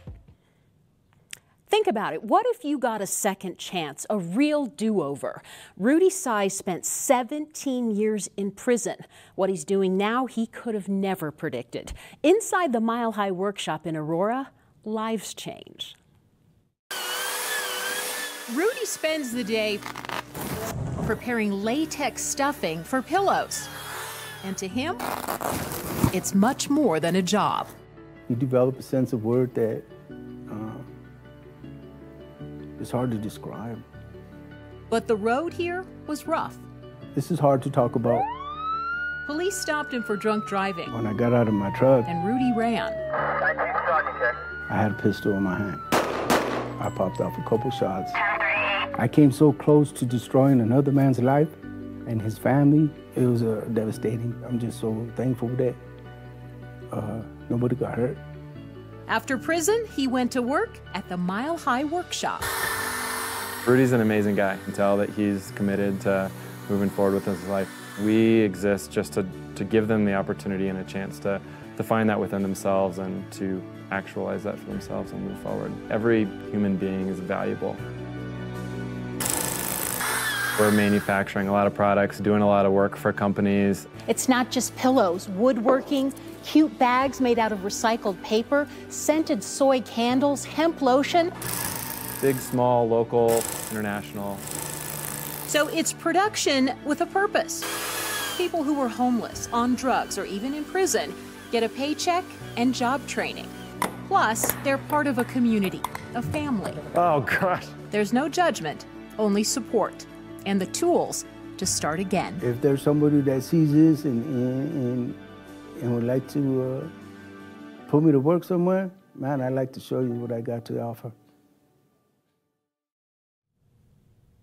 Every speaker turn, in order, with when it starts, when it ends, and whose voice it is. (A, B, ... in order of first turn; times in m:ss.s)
0:01.7-0:16.0 A
0:18.5-0:19.8 A
0:21.0-0:23.7 A
0:24.4-0:25.0 A
0:26.1-0:27.7 A
0:28.3-0:29.9 B
0:30.5-0:30.9 B
0:32.8-0:33.8 B
0:34.9-0:36.6 A
0:37.2-0:38.3 B
0:39.3-0:40.9 A
0:40.9-0:42.1 B
0:42.1-0:43.0 A
0:44.7-0:45.8 B
0:46.8-0:48.2 B
0:49.0-0:55.8 B
0:56.9-0:58.2 B
0:59.1-1:02.5 A
1:03.7-1:17.8 C
1:20.6-1:23.9 C
1:24.1-1:31.3 A
1:32.2-1:34.4 C
1:35.5-1:37.7 A
1:38.3-1:43.5 A
1:44.1-1:46.8 A
1:46.9-1:47.7 C
1:47.9-1:52.4 A
1:52.4-1:55.2 B
1:55.8-1:56.9 B
1:57.9-2:01.2 B